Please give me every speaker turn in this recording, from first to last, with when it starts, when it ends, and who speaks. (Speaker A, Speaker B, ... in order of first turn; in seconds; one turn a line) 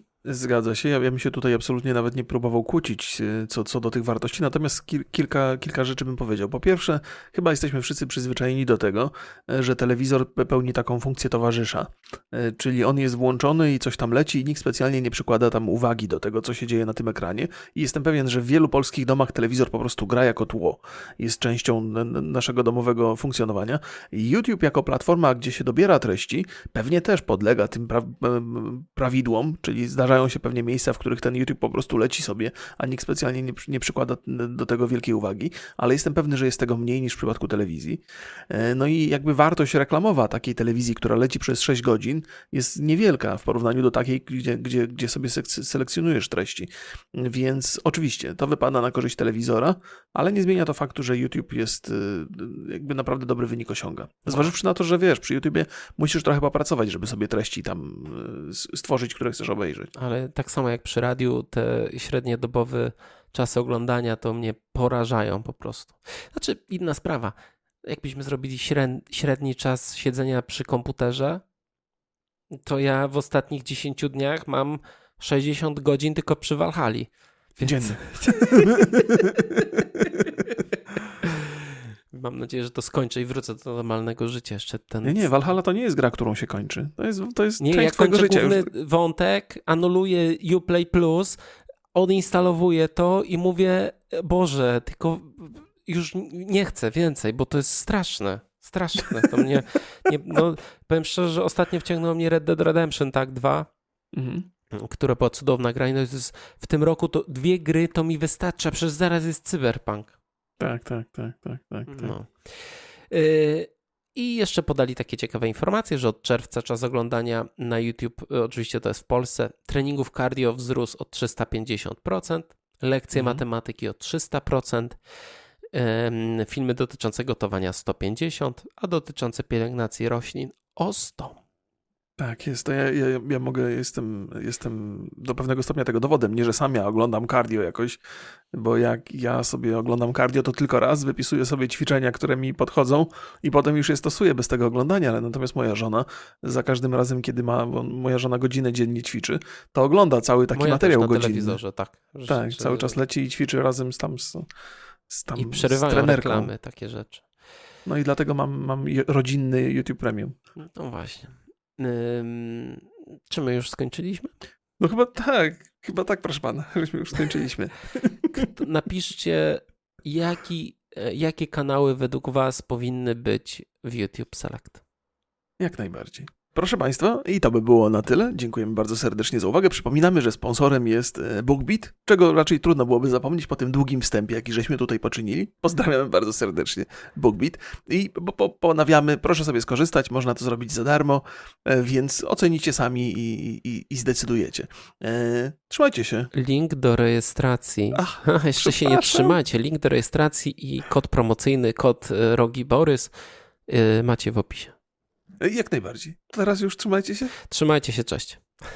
Speaker A: 0.2-59.9
Speaker B: 54.3-54.5
Speaker B: 59.9-71.4
Speaker B: 72.6-78.8
Speaker A: 77.6-79.8
Speaker B: 80.0-80.5
Speaker B: 81.2-85.5
Speaker A: 85.0-88.7
Speaker B: 87.6-91.4
Speaker B: 91.9-103.7
Speaker A: 104.1-104.5
Speaker B: 104.7-110.1
Speaker A: 110.6-112.2
Speaker B: 111.9-125.0
Speaker A: 123.1-123.4
Speaker B: 125.7-131.4
Speaker A: 132.2-138.0
Speaker A: 138.5-151.6
Speaker B: 150.5-153.0
Speaker A: 152.3-154.4
Speaker A: 155.1-156.5
Speaker B: 155.3-157.2
Speaker A: 157.8-160.3
Speaker B: 160.6-164.3
Speaker A: 164.8-168.4
Speaker B: 168.3-174.8
Speaker A: 175.6-196.3
Speaker B: 196.3-203.1
Speaker A: 197.9-199.4
Speaker B: 203.7-204.7
Speaker A: 205.4-207.3
Speaker B: 207.5-208.5